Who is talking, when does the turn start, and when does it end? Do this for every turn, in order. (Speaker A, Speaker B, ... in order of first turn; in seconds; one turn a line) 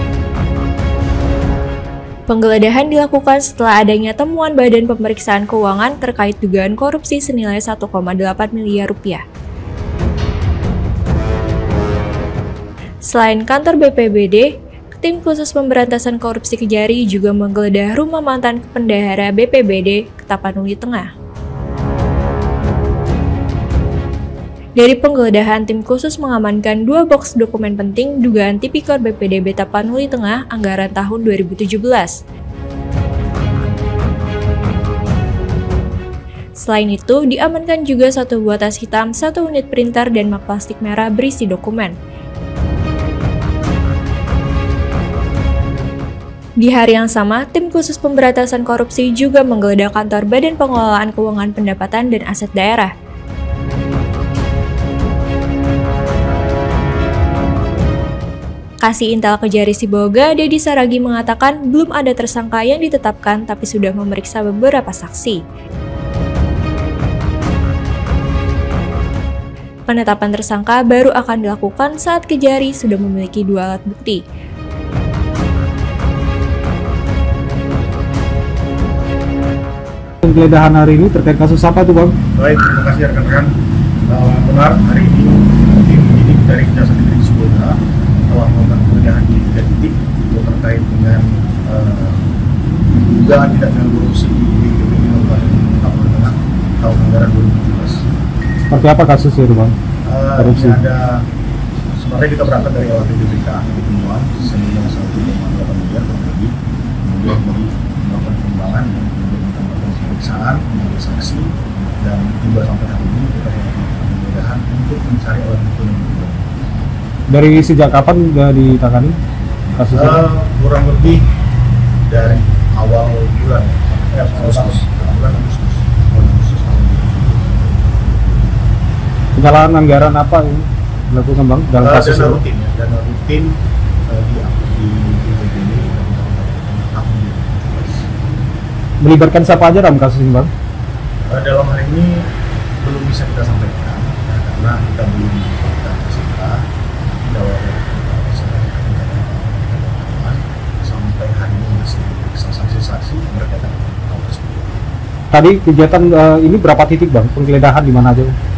Speaker A: 2.3-9.2
Speaker A: 13.1-21.1
Speaker A: 24.8-32.1
Speaker A: 36.6-41.9
Speaker A: 46.6-52.9
Speaker A: 58.8-65.4
Speaker A: 69.9-74.2
Speaker B: 80.2-82.2
Speaker C: 82.3-83.5
Speaker C: 84.1-87.8
Speaker C: 88.3-92.3
Speaker C: 92.9-98.0
Speaker B: 98.7-99.8
Speaker C: 100.0-101.2
Speaker B: 100.4-100.8
Speaker C: 102.0-106.5
Speaker C: 107.0-116.5
Speaker B: 117.3-119.2
Speaker B: 119.8-120.2
Speaker C: 119.9-121.2
Speaker C: 122.1-128.9
Speaker B: 124.4-124.8
Speaker B: 129.4-132.4
Speaker C: 131.8-133.6
Speaker C: 134.1-138.1
Speaker B: 139.0-140.5
Speaker C: 141.3-142.3
Speaker C: 142.8-154.7
Speaker B: 155.3-158.3